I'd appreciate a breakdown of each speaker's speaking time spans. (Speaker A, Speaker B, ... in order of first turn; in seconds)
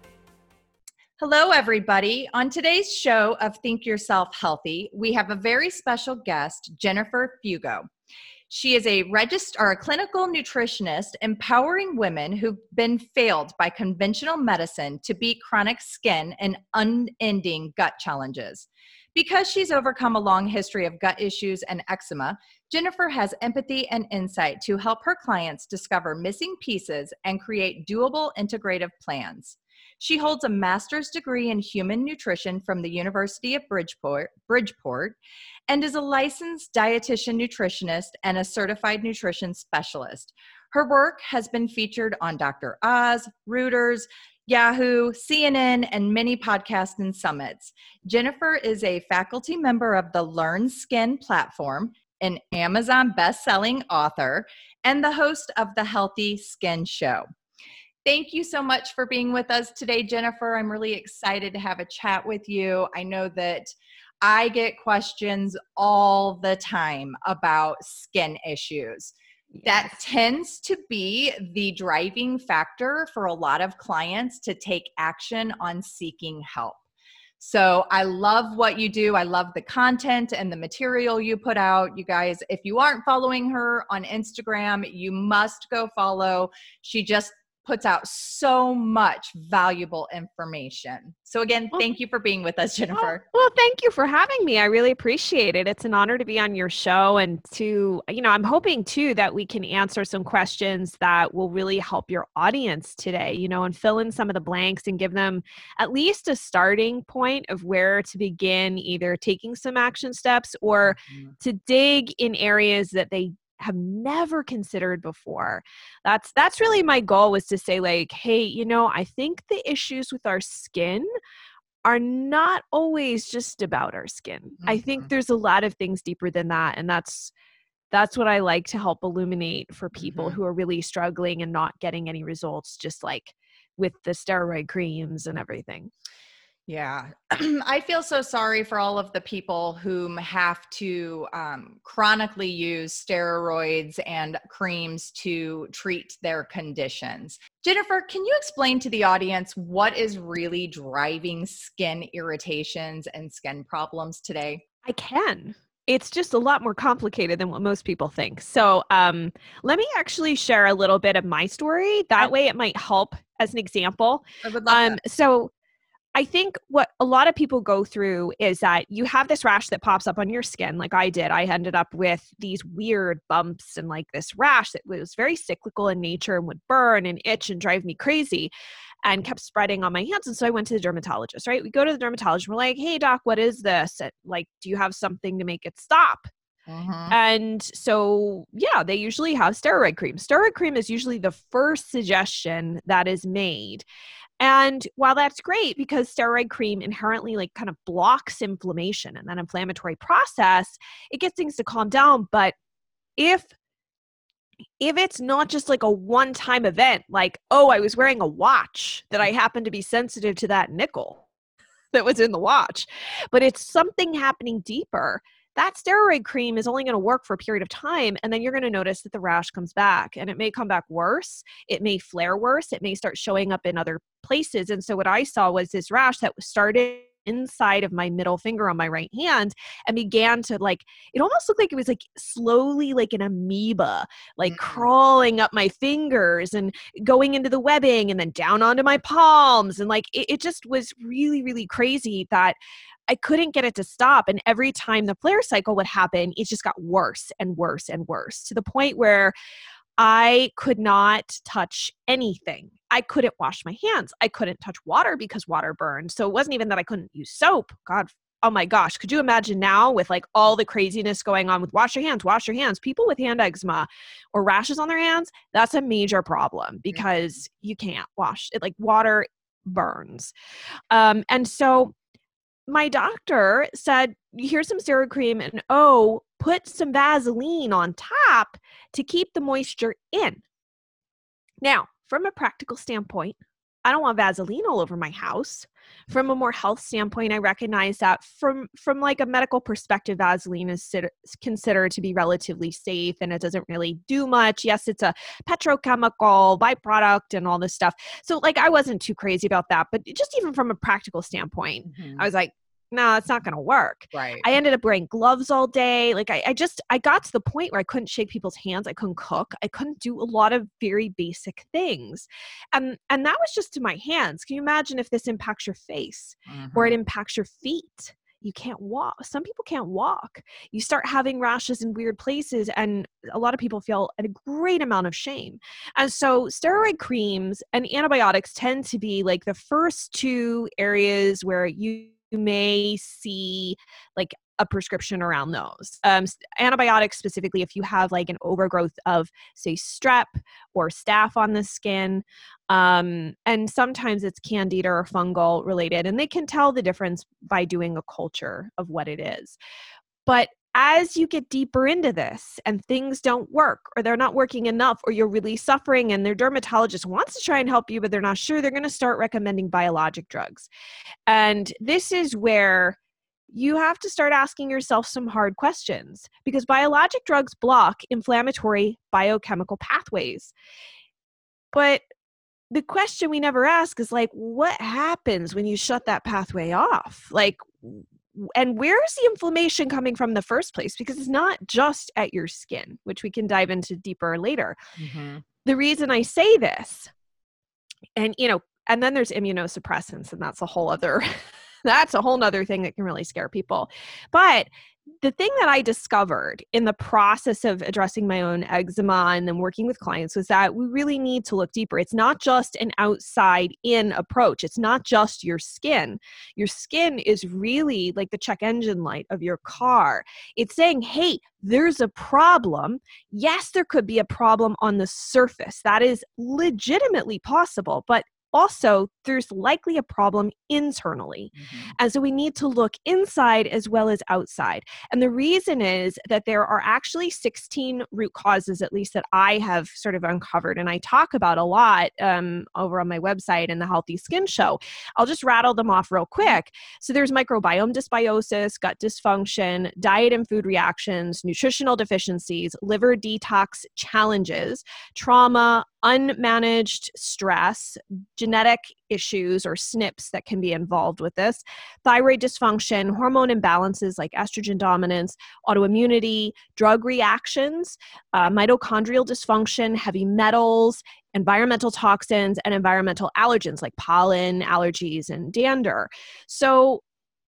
Speaker A: 1.2-7.8, 8.5-57.2, 58.0-63.7, 64.2-76.8, 77.4-93.2, 110.8-111.3, 124.6-125.1, 130.0-130.4, 136.7-154.6, 164.4-165.0, 186.7-187.2, 234.4-234.8, 301.9-302.3, 304.1-304.5, 316.5-316.9, 385.0-385.4, 421.6-421.9
Speaker B: 69.5-69.9, 92.9-121.0, 121.8-127.3, 127.9-135.9, 154.8-165.5, 166.1-178.5, 179.0-186.3, 187.1-193.8, 194.4-202.5, 203.2-203.5, 204.8-211.2, 211.9-242.6, 243.1-249.3, 250.0-270.3, 270.9-271.9, 272.7-280.4, 281.6-349.6, 350.2-360.7, 361.3-363.0, 363.5-370.5, 371.7-372.0, 372.7-384.8, 385.6-387.1, 388.1-391.3, 391.8-394.7, 395.2-467.0